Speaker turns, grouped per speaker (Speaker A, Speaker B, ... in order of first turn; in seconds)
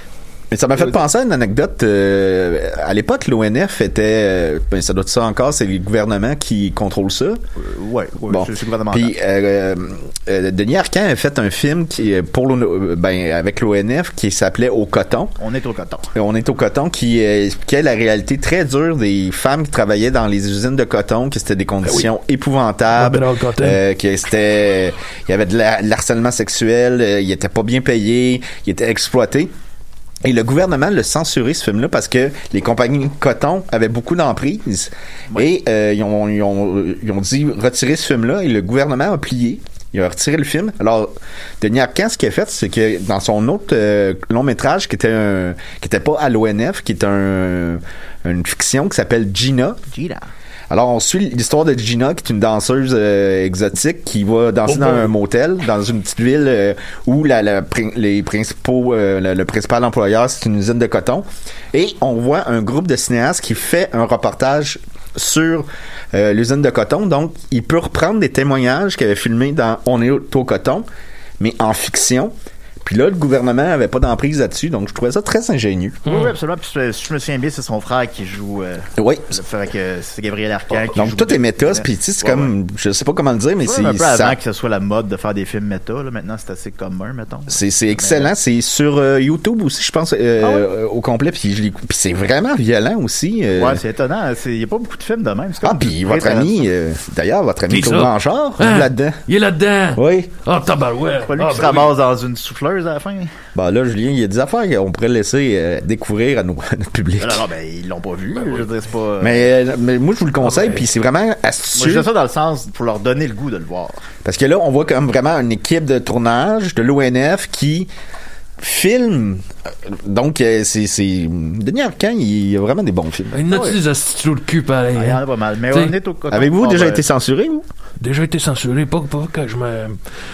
Speaker A: 0.5-7.4, 8.3-15.3, 16.1-29.5, 30.2-49.8, 50.7-70.9, 71.4-76.0, 79.0-79.4, 80.8-84.4, 87.5-93.8, 95.6-99.2, 100.0-100.3, 103.5-107.5, 109.2-112.1, 114.2-117.9, 118.6-123.5, 126.3-127.7
Speaker B: 7.6-9.1, 15.4-16.1, 49.9-50.2, 76.0-82.5, 83.6-88.3, 90.4-90.7, 93.5-96.6, 101.2-103.3, 107.2-109.5, 111.8-114.0, 123.5-123.8, 125.0-127.0
Speaker C: 22.9-23.8, 54.7-55.1, 76.0-76.3, 97.7-101.9, 110.4-110.8, 123.3-126.0, 128.0-130.0